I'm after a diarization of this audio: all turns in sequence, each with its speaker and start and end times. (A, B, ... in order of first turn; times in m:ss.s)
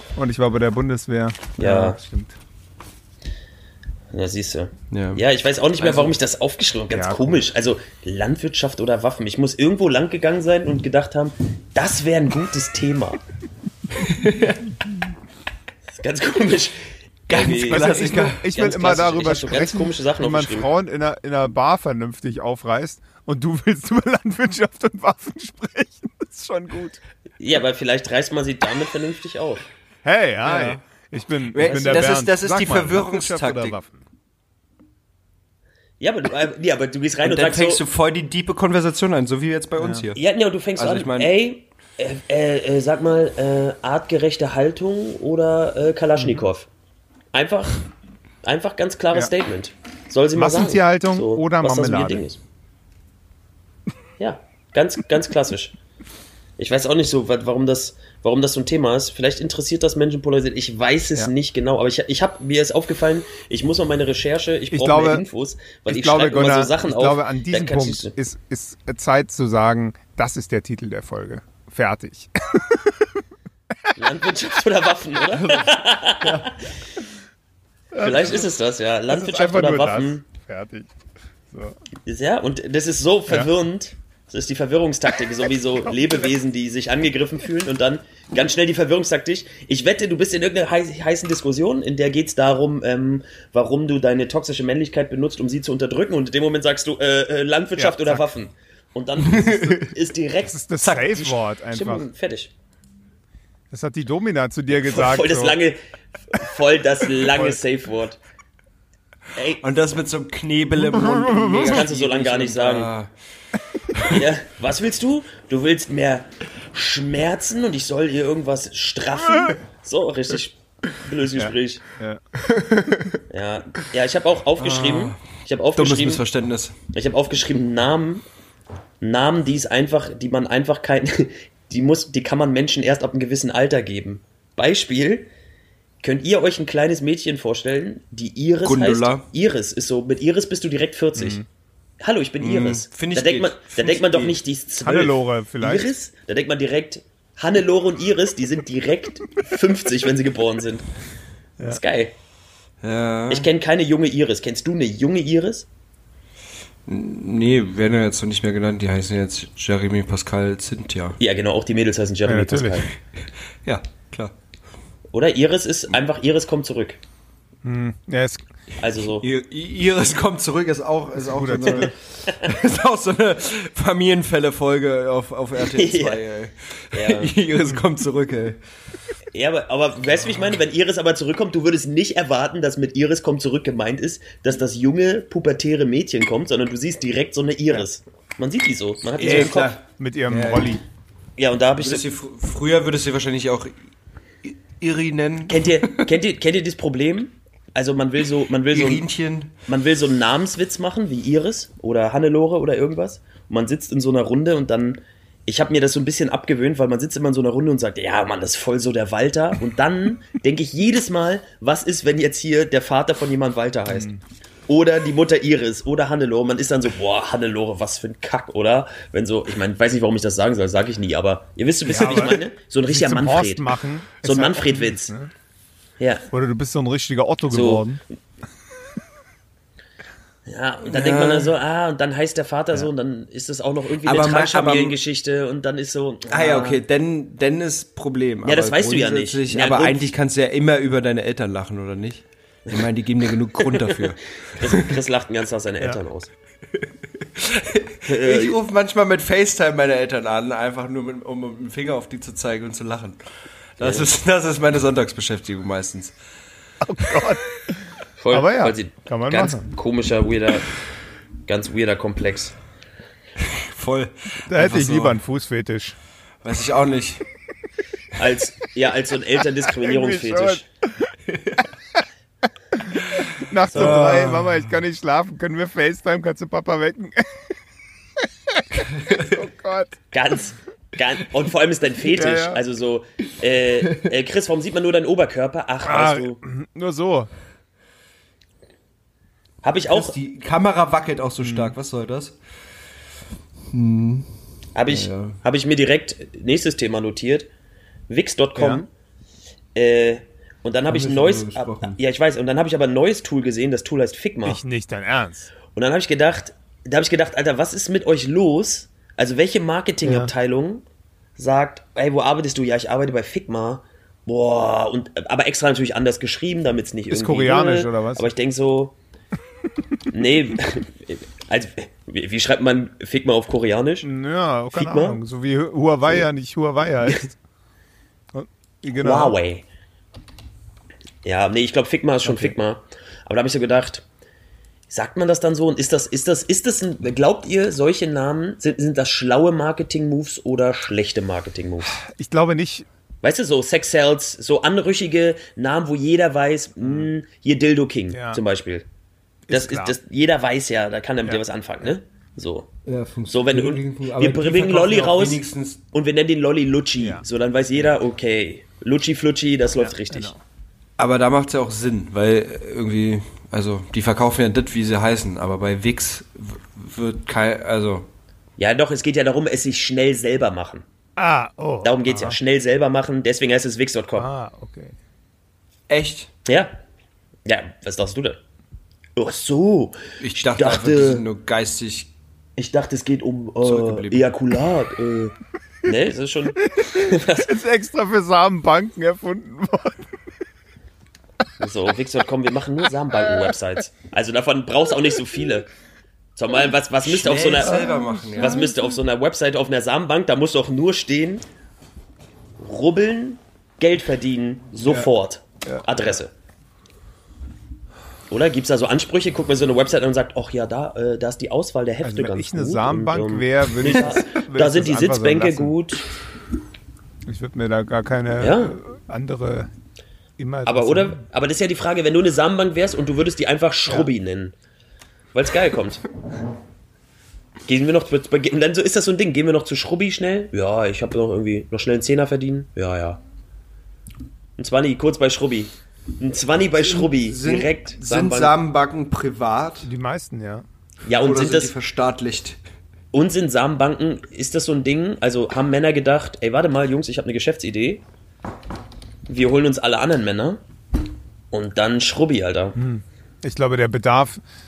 0:00.1-0:02.3 A
0:01.6-0:02.0 B
0:04.1-0:13.2 B
0:04.9-0:05.2 C
0:05.8-0:06.1 C
0:06.9-0:07.4 A
0:14.0-0:14.6 C
0:15.9-0:20.7 B
0:17.3-0:18.5 C
0:17.4-0:27.0 A
0:27.4-0:29.6 B
0:30.0-0:34.0 A
0:30.4-0:30.8 C
0:31.5-0:33.8 C
0:31.7-0:32.1 B
0:36.0-0:37.8 B
0:37.2-0:40.2 C
0:39.8-0:40.0 A
0:40.2-0:46.7 B
0:40.8-0:41.3 C
0:47.3-0:47.8 B
0:48.4-0:52.4 B
0:50.3-0:52.2 A
0:54.2-0:55.7 B
0:56.6-1:08.1 B
1:04.7-1:05.2 A
1:05.9-1:12.9 A
1:14.0-1:16.7 B
1:17.9-1:18.5 A
1:18.0-1:20.2 B
1:19.1-1:20.9 A
1:22.0-1:42.5 B
1:37.8-1:38.2 A
1:39.2-1:39.9 C
1:40.4-1:42.1 A
1:43.7-1:45.6 A
1:44.8-1:45.8 B
1:46.3-1:48.2 B
1:47.2-1:47.6 A
1:49.3-1:49.6 B
1:49.6-1:53.1 C
1:50.8-1:51.8 A
1:51.5-1:52.9 B
1:53.9-1:54.2 C
1:54.0-2:01.8 B
2:01.3-2:02.2 A
2:02.4-2:03.2 C
2:03.3-2:06.2 B
2:04.6-2:05.2 C
2:05.7-2:06.8 C
2:06.9-2:08.2 B
2:09.0-2:15.3 B
2:16.0-2:21.4 B
2:18.6-2:19.3 C
2:21.2-2:21.4 A
2:22.0-2:30.8 B
2:22.4-2:24.4 C
2:24.8-2:25.9 A
2:31.6-2:32.1 B
2:32.8-2:33.5 C
2:33.3-2:35.7 B
2:36.9-2:41.2 C
2:41.2-2:42.9 B
2:42.2-2:42.9 A
2:43.6-2:44.3 C
2:45.1-2:47.0 B
2:47.6-2:48.4 A
2:48.8-2:49.2 B
2:49.0-2:58.6 C
2:51.2-2:51.9 A
2:55.7-2:56.2 B
2:56.9-2:57.4 B
2:59.3-3:09.8 B
3:09.2-3:10.8 C
3:09.2-3:10.8 A
3:11.4-3:12.0 B
3:11.8-3:13.8 C
3:14.4-3:16.1 C
3:15.5-3:19.0 B
3:18.7-3:19.5 C
3:19.7-3:34.1 B
3:33.9-3:34.2 A
3:34.7-3:43.7 B
3:41.9-3:45.3 A
3:44.2-3:45.1 B
3:46.0-3:46.2 B
3:46.3-3:48.0 A
3:47.5-3:47.8 B
3:50.4-3:56.8 B
3:50.8-3:51.5 C
3:54.0-3:55.0 C
3:56.3-4:05.0 C
3:58.4-4:00.1 B
4:03.7-4:06.3 B
4:06.7-4:13.2 C
4:08.0-4:08.6 B
4:13.8-4:16.1 C
4:13.8-4:14.1 B
4:16.8-4:17.8 A
4:18.2-4:20.7 B
4:18.3-4:19.6 A
4:21.5-4:22.6 B
4:23.4-4:25.2 C
4:24.5-4:26.0 A
4:26.4-4:27.2 C
4:28.1-4:30.6 B
4:29.7-4:31.1 A
4:31.3-4:31.6 C
4:32.9-4:37.5 A
4:33.7-4:34.1 B
4:33.7-4:34.8 C
4:38.6-4:40.0 A
4:38.8-4:39.4 C
4:40.1-4:46.4 B
4:42.0-4:42.6 A
4:45.8-4:47.3 A
4:49.6-4:50.1 B
4:49.9-4:52.4 C
4:51.4-4:51.7 A
4:53.7-4:54.3 C
4:54.7-4:57.5 B
4:54.9-4:55.4 C
4:58.1-4:58.9 B
4:58.6-4:58.8 A
4:59.7-5:04.6 B
5:00.9-5:02.0 C
5:04.4-5:05.5 A
5:05.7-5:10.8 B
5:10.0-5:10.3 A
5:11.4-5:18.9 B
5:17.1-5:18.3 A
5:20.1-5:24.1 B
5:24.0-5:27.4 A
5:24.7-5:25.2 B
5:28.3-5:29.4 A
5:28.9-5:29.6 B
5:31.2-5:34.0 B
5:32.2-5:32.5 A
5:34.9-5:41.9 B
5:41.9-5:42.9 A
5:43.2-5:48.9 B
5:48.1-5:48.4 A
5:49.5-5:49.9 A
5:49.5-5:52.7 B
5:52.9-5:55.8 C
5:53.3-6:00.3 B
5:59.8-6:00.4 A
6:01.0-6:08.1 C
6:08.6-6:10.8 B
6:11.2-6:12.4 A
6:11.8-6:14.3 B
6:14.2-6:14.9 A
6:15.9-6:16.3 C
6:16.4-6:16.7 B
6:17.4-6:18.4 B
6:19.2-6:21.2 B
6:20.2-6:22.1 C
6:22.6-6:25.3 B
6:23.6-6:24.3 C
6:25.8-6:27.5 B
6:26.8-6:30.1 A
6:31.6-6:35.7 B
6:36.4-6:41.4 B
6:37.0-6:38.7 C
6:37.8-6:38.6 A
6:42.6-6:46.3 B
6:44.8-6:45.1 A
6:45.6-6:46.0 A
6:48.3-6:56.0 B
6:52.0-6:55.7 A
6:57.3-6:59.7 A
6:58.4-6:58.8 B
7:00.4-7:01.2 A
7:00.6-7:04.5 B
7:05.3-7:06.0 B
7:07.7-7:13.2 B
7:14.6-7:18.6 B
7:16.8-7:19.9 C
7:19.8-7:20.6 A
7:21.0-7:21.7 B
7:21.1-7:22.6 C
7:23.1-7:28.0 B
7:29.3-7:30.6 B
7:31.5-7:32.8 B
7:32.8-7:34.4 A